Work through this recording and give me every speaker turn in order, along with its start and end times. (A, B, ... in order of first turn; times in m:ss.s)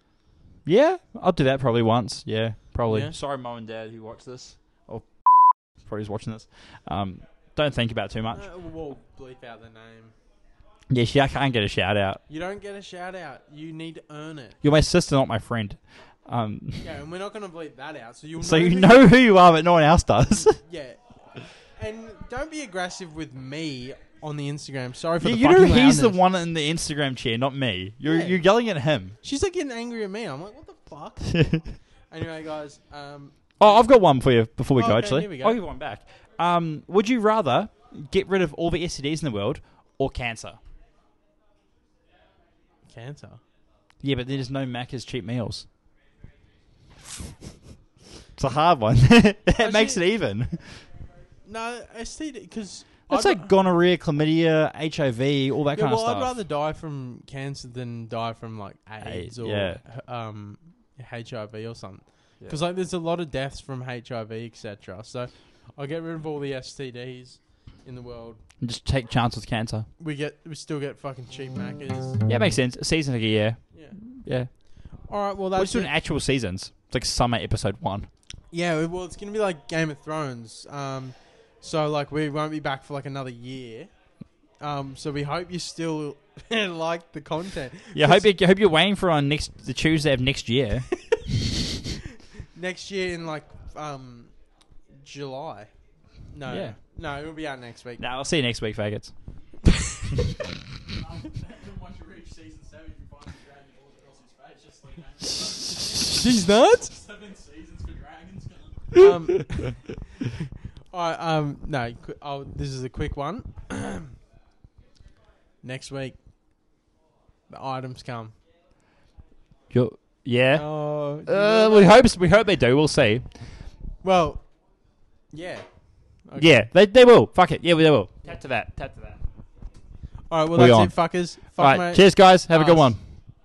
0:00.6-0:08.5 A
0:02.9-0:03.1 B
0:08.3-0:10.1 B
0:10.9-0:12.2 A
0:12.3-0:14.6 B
0:14.6-0:16.9 A
0:16.8-0:19.1 B
0:18.4-0:20.6 A
0:20.6-0:26.2 B
0:25.2-0:29.2 A
0:28.0-0:28.4 B
0:29.2-0:33.9 B
0:31.3-0:31.6 A
0:33.6-0:40.6 A
0:34.8-0:35.6 B
0:42.8-0:43.4 B
0:44.0-0:45.7 A
0:48.4-0:50.9 A
0:49.6-0:50.0 B
0:51.4-0:53.5 B
0:53.1-0:56.3 A
0:55.7-1:08.4 B
0:59.0-0:59.8 A
1:08.6-1:09.9 A
1:10.0-1:12.3 B
1:12.3-1:14.6 A
1:13.7-1:14.0 B
1:15.0-1:15.9 B
1:15.6-1:18.1 A
1:18.5-1:23.9 B
1:24.6-1:28.3 B
1:27.9-1:30.9 A
1:32.5-1:34.3 B
1:35.0-1:35.7 B
1:36.3-1:38.0 B
1:36.5-1:36.8 A
1:38.0-1:39.1 A
1:40.9-1:49.1 C
1:46.0-1:46.9 B
1:48.9-1:50.0 B
1:50.9-1:54.1 B
1:55.6-1:56.2 B
1:57.5-1:58.3 B
1:59.7-2:00.7 A
2:00.5-2:02.0 B
2:01.2-2:03.4 A
2:04.0-2:04.4 B
2:05.3-2:05.6 B
2:06.2-2:06.5 B
2:06.4-2:09.2 A
2:10.3-2:13.0 B
2:10.6-2:13.0 A